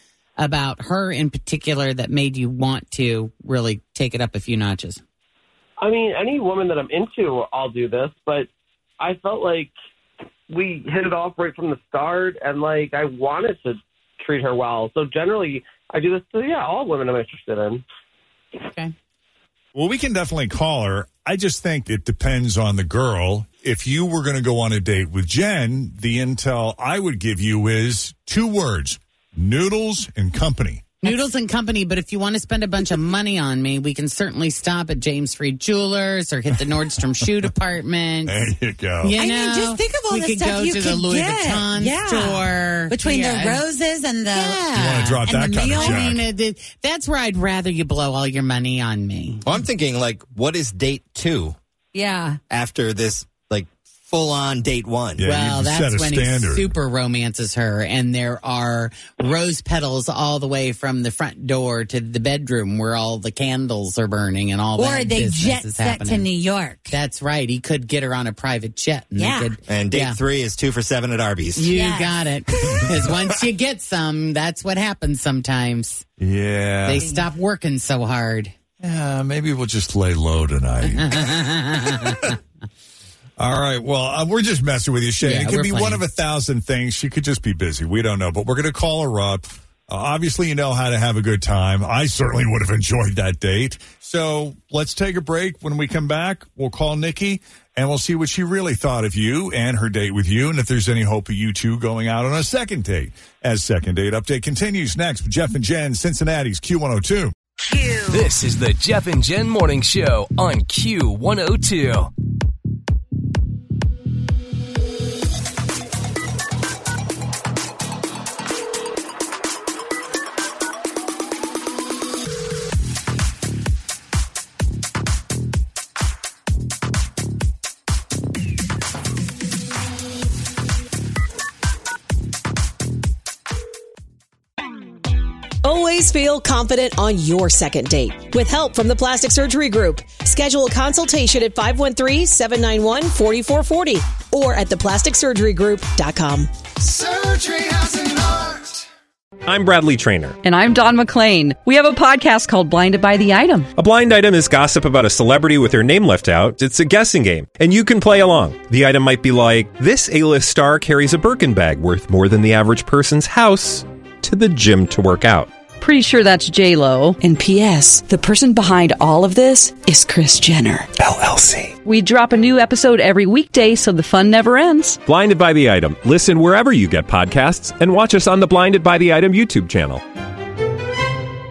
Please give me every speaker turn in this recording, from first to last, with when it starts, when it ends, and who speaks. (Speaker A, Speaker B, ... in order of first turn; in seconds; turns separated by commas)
Speaker A: 0.4-5.0, Speaker B: 5.8-8.5, Speaker B: 9.0-9.7, Speaker B: 10.5-17.8, Speaker A: 18.6-18.9, Speaker C: 19.7-31.0, Speaker A: 31.0-38.4, Speaker C: 38.2-39.1, Speaker A: 39.0-43.6, Speaker D: 39.1-44.7, Speaker A: 44.3-49.4, Speaker C: 44.8-46.2, Speaker D: 45.2-46.1, Speaker E: 49.4-51.6, Speaker D: 51.9-52.4, Speaker E: 52.5-55.3, Speaker C: 55.2-56.7, Speaker A: 55.2-66.3, Speaker D: 64.8-67.0, Speaker A: 66.9-70.2, Speaker D: 69.1-69.6, Speaker E: 69.7-71.7, Speaker A: 71.5-76.0, Speaker D: 71.7-72.3, Speaker C: 72.6-73.1, Speaker C: 76.2-77.0, Speaker A: 76.8-78.5, Speaker D: 77.0-77.3, Speaker C: 78.8-82.3, Speaker A: 80.8-82.3, Speaker C: 83.4-107.3, Speaker A: 85.2-86.0, Speaker F: 108.0-112.1, Speaker G: 135.6-146.5, Speaker H: 146.8-148.8, Speaker I: 149.4-150.4, Speaker J: 150.4-153.7, Speaker I: 153.7-165.5, Speaker J: 165.8-175.0, Speaker I: 175.0-180.0